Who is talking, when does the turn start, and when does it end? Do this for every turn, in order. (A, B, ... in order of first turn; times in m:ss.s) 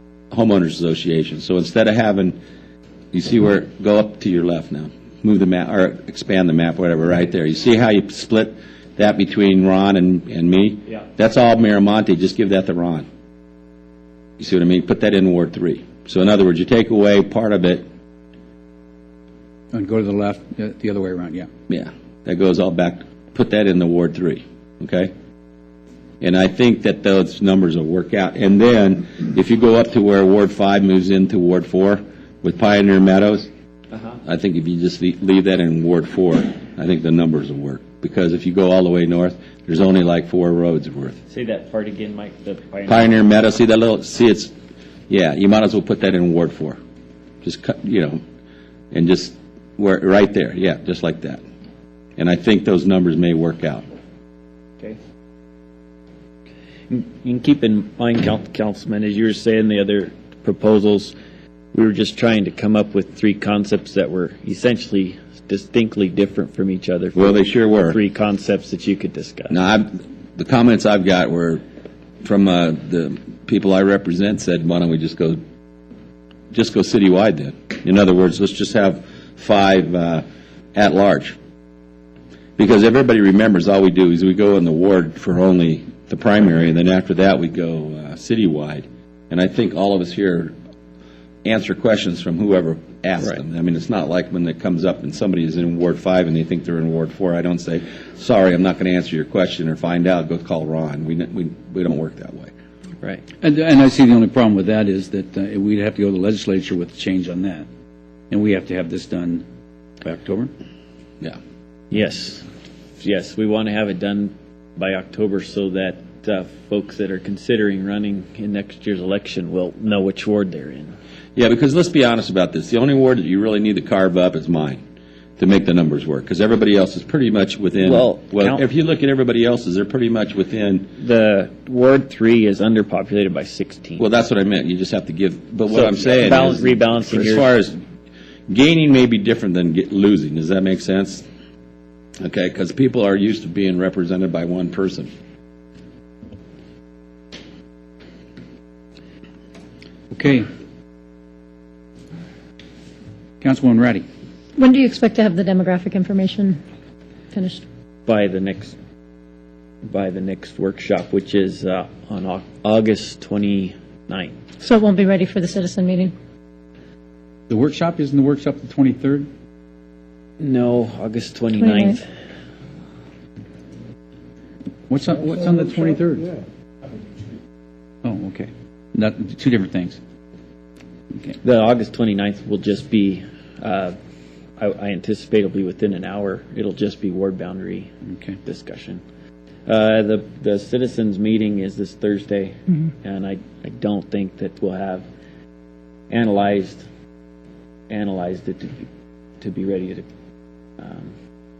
0:00.3-0:02.4 A
0:03.1-0:13.1 A
0:14.4-0:17.8 A
0:19.7-0:21.5 B
0:21.7-0:25.1 A
0:26.2-0:33.5 A
0:34.2-0:41.2 A
0:41.3-0:43.1 C
0:42.9-0:44.5 A
0:45.1-0:46.8 A
0:47.4-0:48.2 A
0:48.9-0:51.4 A
0:52.2-0:53.8 A
0:56.9-1:01.2 C
1:01.7-1:09.6 C
1:07.2-1:08.0 A
1:09.5-1:11.6 A
1:12.2-1:15.4 A
1:16.5-1:20.2 A
1:20.8-1:21.4 A
1:22.6-1:30.6 A
1:31.4-1:42.5 A
1:43.4-1:47.7 B
1:48.3-1:49.4 B
1:50.0-1:50.5 B
1:51.9-1:52.4 C
1:53.0-2:00.9 C
2:01.4-2:04.8 A
2:05.4-2:10.9 A
2:07.8-2:08.6 C
2:11.0-2:14.0 C
2:14.0-2:17.8 A
2:15.7-2:17.5 C
2:18.5-2:21.2 A
2:22.2-2:25.1 A
2:30.1-2:30.4 B
2:33.4-2:34.0 B
2:34.6-2:36.6 D
2:37.3-2:37.6 D
2:38.1-2:38.8 C
2:39.9-2:44.4 C
2:44.6-2:46.1 D
2:47.5-2:49.3 B
2:50.4-2:52.0 C
2:51.6-2:52.0 D
2:54.9-2:56.4 B
2:58.0-3:00.0 B
3:01.4-3:04.0 C
3:04.6-3:07.9 C
3:08.1-3:08.4 B
3:08.4-3:09.0 C
3:09.7-3:15.1 C
3:16.1-3:16.8 C
3:17.9-3:18.9 C
3:19.4-3:20.0 C
3:20.8-3:21.1 C